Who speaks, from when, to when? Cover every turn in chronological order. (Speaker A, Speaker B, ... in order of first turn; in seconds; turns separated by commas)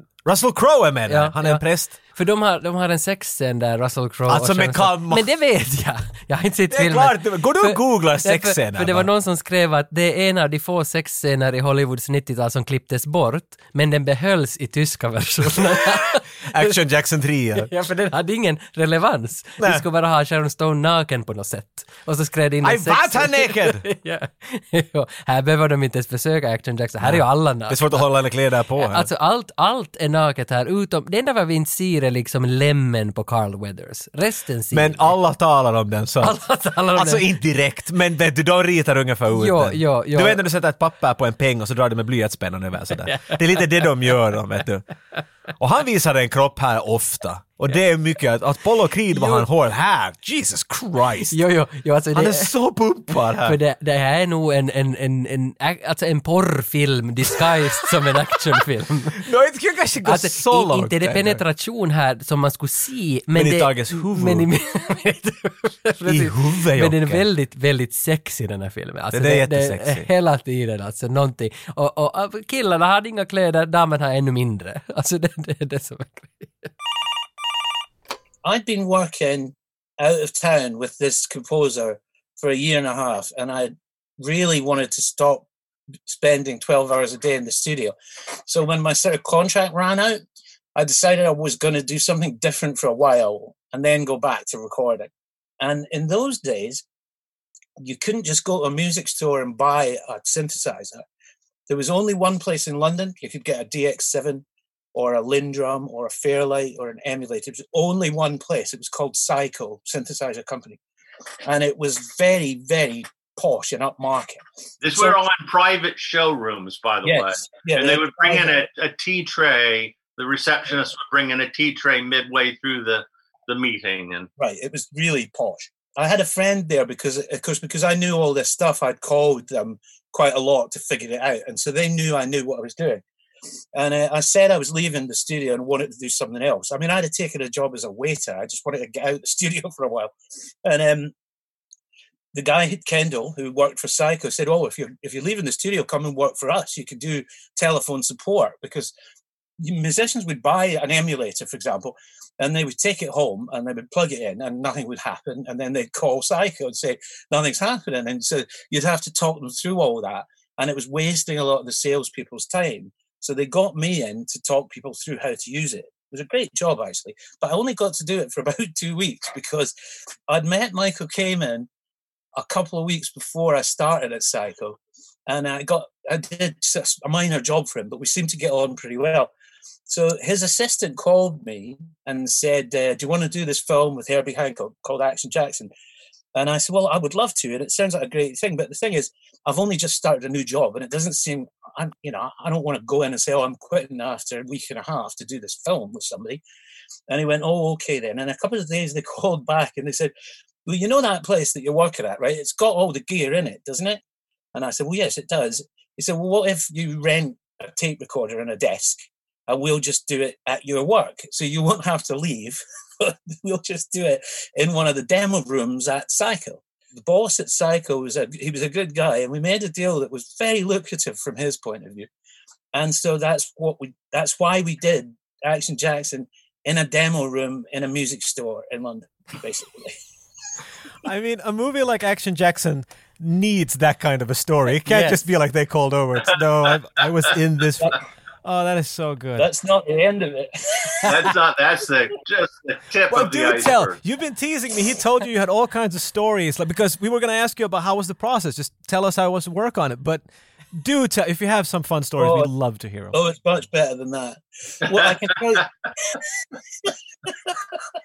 Speaker A: 0.2-2.0, Speaker B: 1.1-16.7, Speaker A: 4.3-5.2, Speaker A: 6.7-9.1, Speaker A: 15.7-17.7, Speaker B: 17.6-28.1, Speaker A: 19.6-19.8, Speaker A: 22.6-23.8, Speaker A: 27.0-29.1, Speaker B: 28.8-35.1, Speaker A: 34.7-36.4, Speaker B: 36.2-37.2, Speaker A: 36.9-44.9, Speaker B: 39.3-40.4, Speaker B: 43.0-44.1, Speaker A: 45.6-51.4, Speaker B: 49.1-49.5, Speaker B: 51.3-52.5, Speaker A: 52.1-53.6, Speaker B: 53.4-59.2, Speaker A: 59.1-61.4, Speaker B: 60.0-76.7, Speaker A: 63.3-64.5, Speaker A: 66.0-67.2, Speaker A: 69.1-70.1, Speaker C: 78.4-85.5, Speaker C: 86.1-87.9, Speaker C: 88.5-90.2, Speaker C: 90.8-96.8, Speaker C: 97.8-101.0, Speaker C: 101.7-110.8, Speaker C: 111.4-115.2, Speaker D: 114.8-124.3, Speaker C: 117.0-118.6, Speaker C: 124.4-133.0, Speaker C: 133.7-141.1, Speaker C: 142.3-148.9, Speaker C: 149.6-169.7, Speaker C: 170.3-171.7, Speaker C: 172.3-179.3, Speaker C: 179.9-185.7, Speaker C: 186.3-196.4, Speaker C: 197.1-200.1, Speaker C: 200.7-204.0, Speaker C: 204.5-222.1, Speaker C: 222.7-229.9, Speaker A: 231.0-239.5, Speaker B: 234.9-235.2, Speaker C: 239.4-241.3, Speaker D: 241.0-244.0, Speaker A: 243.1-253.2, Speaker C: 252.2-252.5, Speaker C: 253.1-256.2, Speaker C: 256.8-257.6